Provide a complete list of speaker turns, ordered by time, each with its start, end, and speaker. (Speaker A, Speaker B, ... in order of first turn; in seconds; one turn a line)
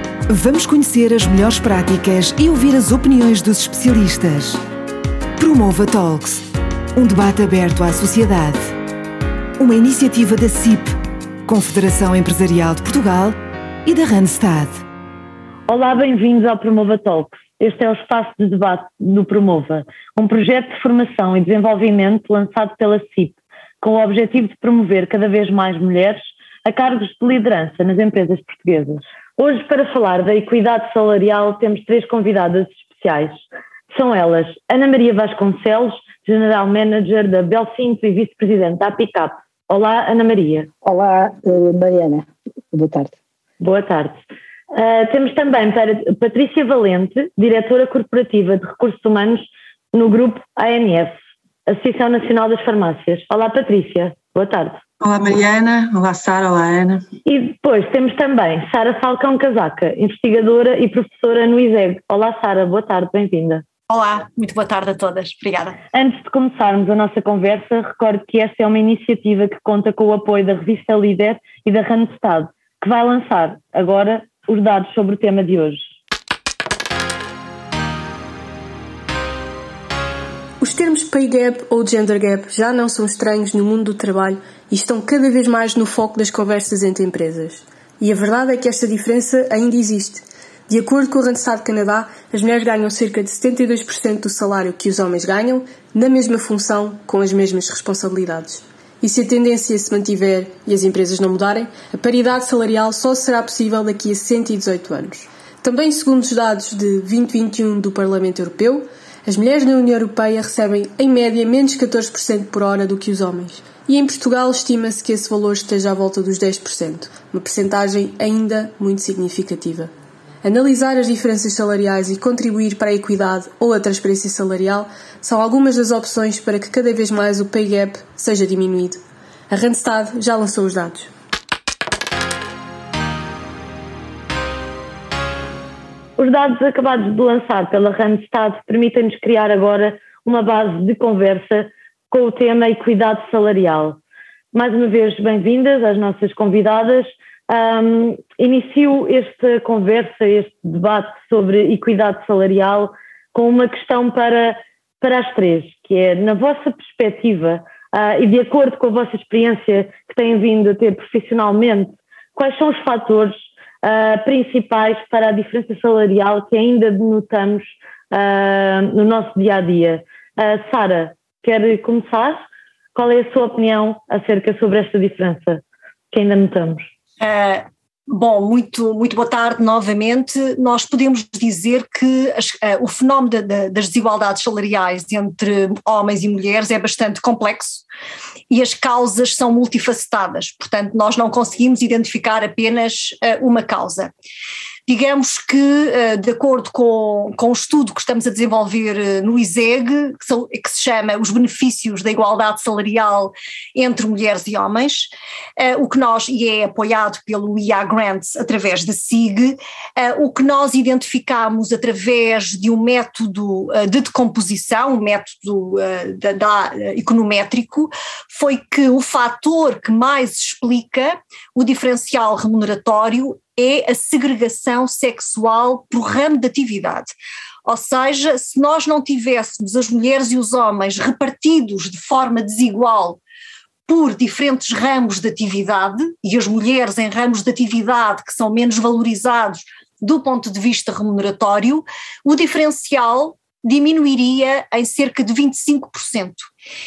Speaker A: 0.3-4.6
Speaker A: 5.4-8.8
Speaker A: 9.6-14.8
Speaker B: 15.7-33.4
Speaker B: 33.9-40.7
Speaker C: 40.8-43.2
Speaker B: 43.6-51.1
Speaker B: 51.7-54.8
Speaker D: 55.0-57.0
Speaker B: 57.3-63.6
Speaker E: 63.9-65.8
Speaker B: 65.9-75.8
Speaker F: 80.6-131.1
Speaker B: 136.2-144.0
Speaker B: 144.5-172.4
Speaker B: 172.9-176.9
Speaker E: 177.2-187.8
Speaker E: 188.5-194.1
Speaker E: 194.9-227.2
Speaker E: 227.7-233.2
Speaker E: 233.9-246.5